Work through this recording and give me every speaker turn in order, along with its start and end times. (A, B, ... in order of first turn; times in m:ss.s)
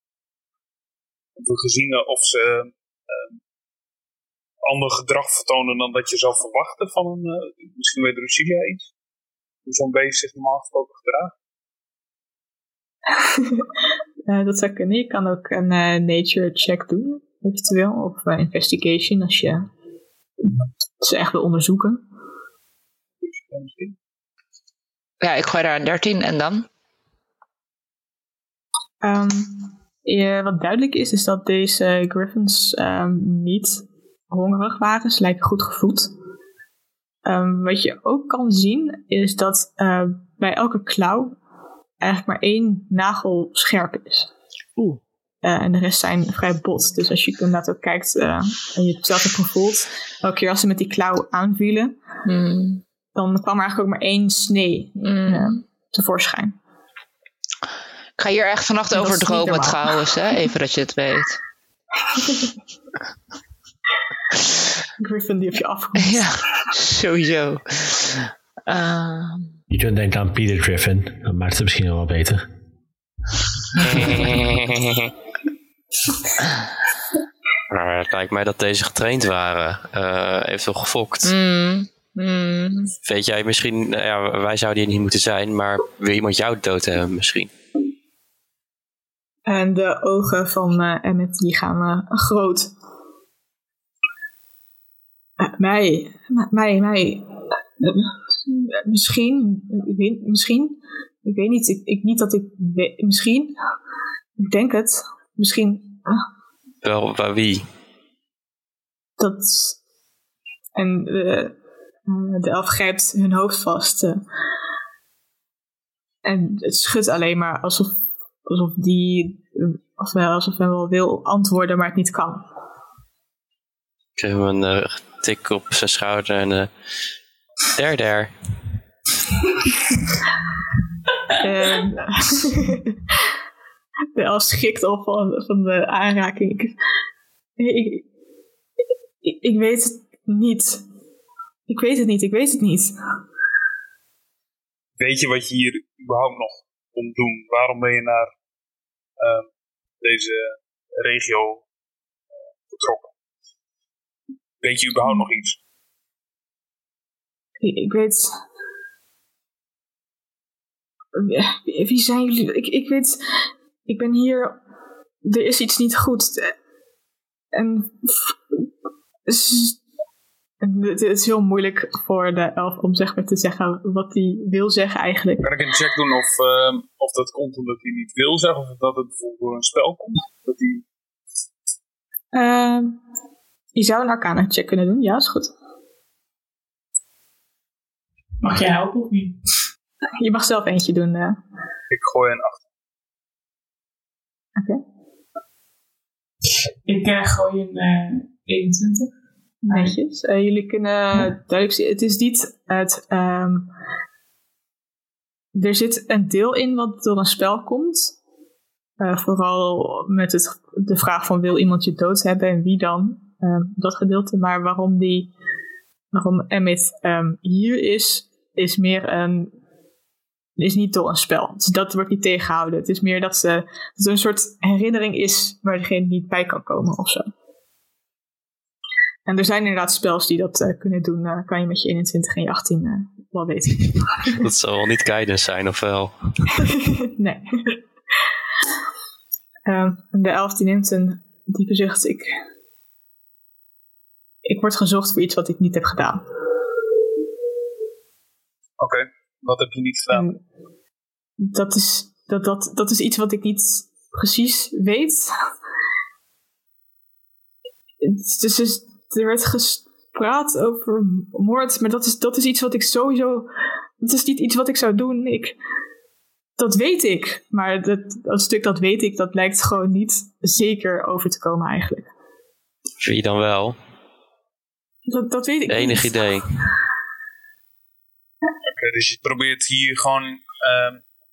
0:01.4-0:03.4 A
0:04.6-0:08.9 A
0:09.7-0:11.3 A
0:13.2-0:13.6 B
0:14.3-0:19.7 B
0:21.0-0:22.0 B
0:23.3-0:24.0 A
0:25.2-0:26.7 C
0:29.0-0:36.1 B
0:37.2-0:41.4 B
0:42.0-0:44.3 B
0:45.4-0:52.0 B
0:52.2-0:52.8 C
0:53.2-0:56.6 B
0:55.0-0:55.6 C
0:58.2-1:01.4 C
0:58.9-1:00.1 B
1:02.2-1:02.5 B
1:05.0-1:06.3 B
1:06.0-1:09.6 C
1:09.7-1:12.5 D
1:13.9-1:15.1 E
1:17.7-1:21.3 E
1:21.2-1:22.9 C
1:23.1-1:27.5 E
1:29.5-1:32.7 B
1:35.4-1:43.6 B
1:44.4-1:46.2 B
1:46.8-1:47.6 E
1:49.2-1:49.8 B
1:50.8-1:51.6 B
1:52.1-1:54.2 B
1:56.2-2:02.4 B
2:04.2-2:06.7 E
2:07.8-2:08.3 E
2:11.4-2:13.0 B
2:14.2-2:16.8 B
2:17.6-2:18.1 B
2:19.2-2:20.8 B
2:21.7-2:23.0 B
2:25.0-2:28.3 A
2:29.2-2:29.5 A
2:30.0-2:31.7 A
2:32.7-2:33.1 A
2:34.6-2:35.6 A
2:37.6-2:38.4 B
2:41.2-2:44.6 B
2:45.2-2:46.6 B
2:47.5-2:48.6 B
2:49.3-2:49.8 B
2:50.6-2:55.5 B
2:55.4-3:00.8 A
3:02.3-3:03.0 B
3:03.8-3:05.5 B
3:08.4-3:09.4 F
3:10.2-3:11.4 B
3:11.9-3:12.6 A
3:14.6-3:14.8 B
3:16.8-3:19.1 F
3:19.6-3:23.7 B
3:19.7-3:20.0 F
3:25.6-3:28.2 B
3:29.0-3:35.3 B
3:36.1-3:39.5 B
3:40.6-3:47.3 B
3:49.3-3:54.4 B
3:54.4-3:56.5 E
3:56.9-3:57.8 B
3:59.7-4:02.4 B
4:04.4-4:06.2 B
4:08.8-4:10.3 A
4:10.1-4:10.4 B
4:11.4-4:15.3 B
4:18.0-4:23.5 B
4:24.0-4:25.6 B
4:26.6-4:32.1 B
4:33.0-4:33.8 E
4:35.1-4:36.3 B
4:35.7-4:36.5 E
4:38.6-4:41.0 A